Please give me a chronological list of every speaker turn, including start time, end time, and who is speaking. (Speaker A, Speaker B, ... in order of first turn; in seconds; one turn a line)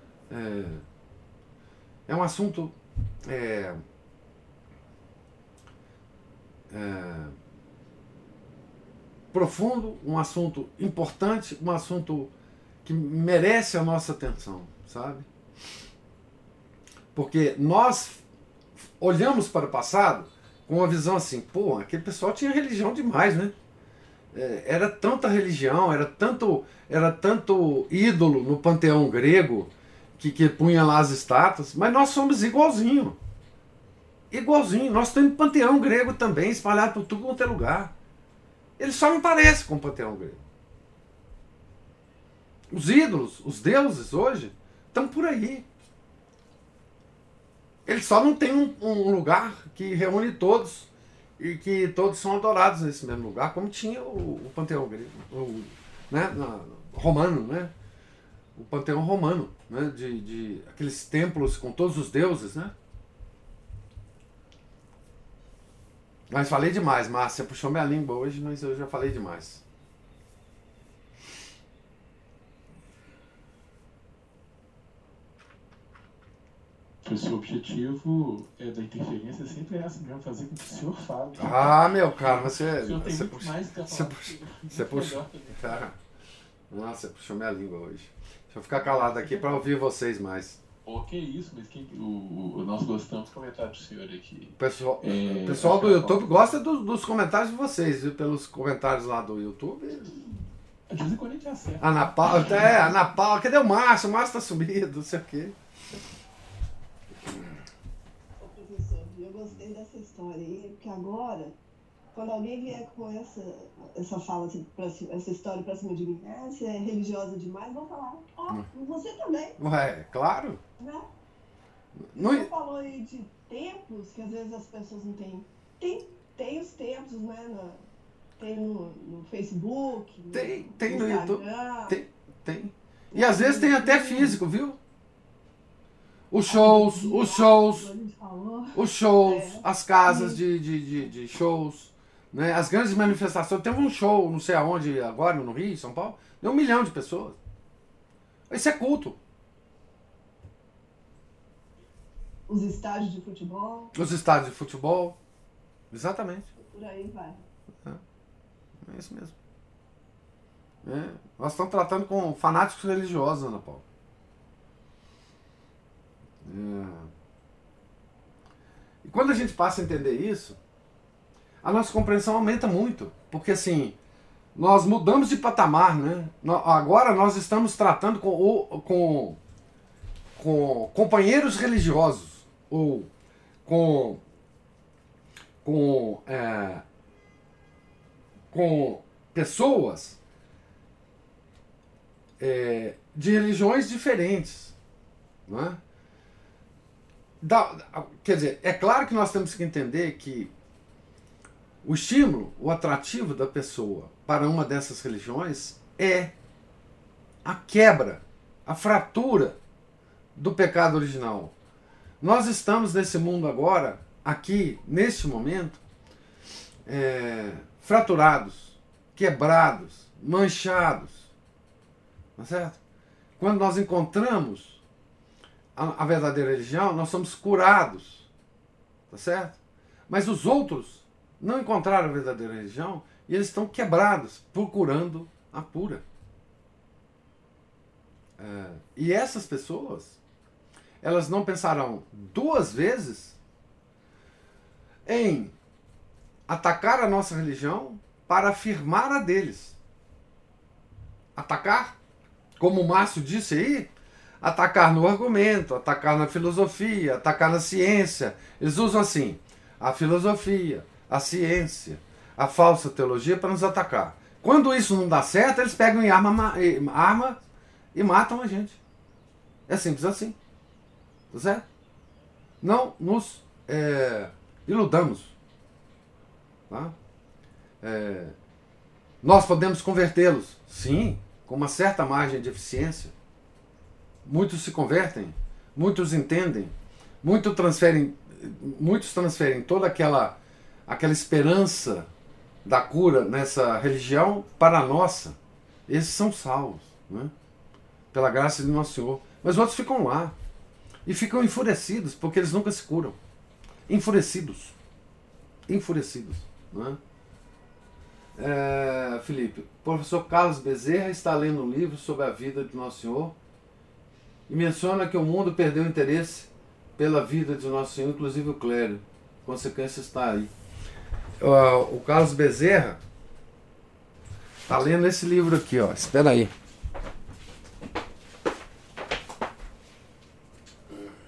Speaker A: 0.3-0.8
Speaker A: 2.1-2.7
Speaker A: 3.2-3.8
Speaker A: 6.7-7.3
Speaker A: 9.3-12.3
Speaker A: 12.8-15.3
Speaker A: 17.1-18.2
Speaker A: 19.0-23.5
Speaker A: 24.3-33.2
Speaker A: 34.3-37.9
Speaker A: 38.8-40.5
Speaker A: 42.7-45.7
Speaker A: 47.9-57.7
Speaker A: 58.6-62.7
Speaker A: 66.3-69.6
Speaker B: 77.0-85.9
Speaker A: 81.4-86.0
Speaker A: 86.7-90.6
Speaker B: 90.8-96.5
Speaker A: 94.6-100.1
Speaker B: 100.9-102.9
Speaker A: 101.8-105.5
Speaker C: 108.4-111.6
Speaker C: 112.1-119.6
Speaker A: 119.6-120.6
Speaker C: 120.8-121.1
Speaker A: 122.0-122.5
Speaker C: 122.2-127.8
Speaker C: 128.4-132.0
Speaker A: 130.3-134.8
Speaker C: 133.1-134.4
Speaker A: 136.3-137.9
Speaker C: 136.5-140.4
Speaker A: 138.7-147.4
Speaker A: 148.5-149.2
Speaker C: 152.5-153.9
Speaker A: 153.9-155.2
Speaker A: 155.9-156.5
Speaker C: 156.6-157.4
Speaker A: 158.8-159.4
Speaker A: 160.8-163.8
Speaker A: 166.4-167.1
Speaker A: 169.0-170.6
Speaker A: 171.6-174.0
Speaker A: 174.6-179.4
Speaker A: 180.4-183.1
Speaker A: 183.7-184.2
Speaker A: 185.6-186.8
Speaker A: 188.5-190.2
Speaker A: 192.4-194.8
Speaker A: 195.5-195.8
Speaker A: 197.4-200.5
Speaker A: 201.8-206.3
Speaker A: 207.4-209.6
Speaker A: 210.3-211.5
Speaker A: 212.2-215.8
Speaker A: 216.9-221.3
Speaker A: 222.4-222.8
Speaker A: 223.4-224.8
Speaker A: 225.8-228.3
Speaker A: 229.1-229.6
Speaker A: 230.1-236.0
Speaker A: 238.4-240.2
Speaker A: 241.0-243.4
Speaker A: 245.1-245.5
Speaker A: 246.5-249.8
Speaker A: 251.4-252.0
Speaker A: 252.6-253.9
Speaker A: 254.4-267.4
Speaker A: 267.9-268.8
Speaker A: 269.7-270.4
Speaker A: 271.3-271.7
Speaker A: 272.6-275.4
Speaker A: 276.7-276.9
Speaker A: 277.8-278.4
Speaker A: 279.2-283.1
Speaker A: 284.2-292.1
Speaker A: 292.6-297.3
Speaker A: 298.1-300.3
Speaker A: 301.1-303.2
Speaker A: 303.9-304.8
Speaker A: 305.7-307.0
Speaker A: 308.4-313.4
Speaker A: 314.5-320.5
Speaker A: 321.4-323.0
Speaker A: 324.7-326.5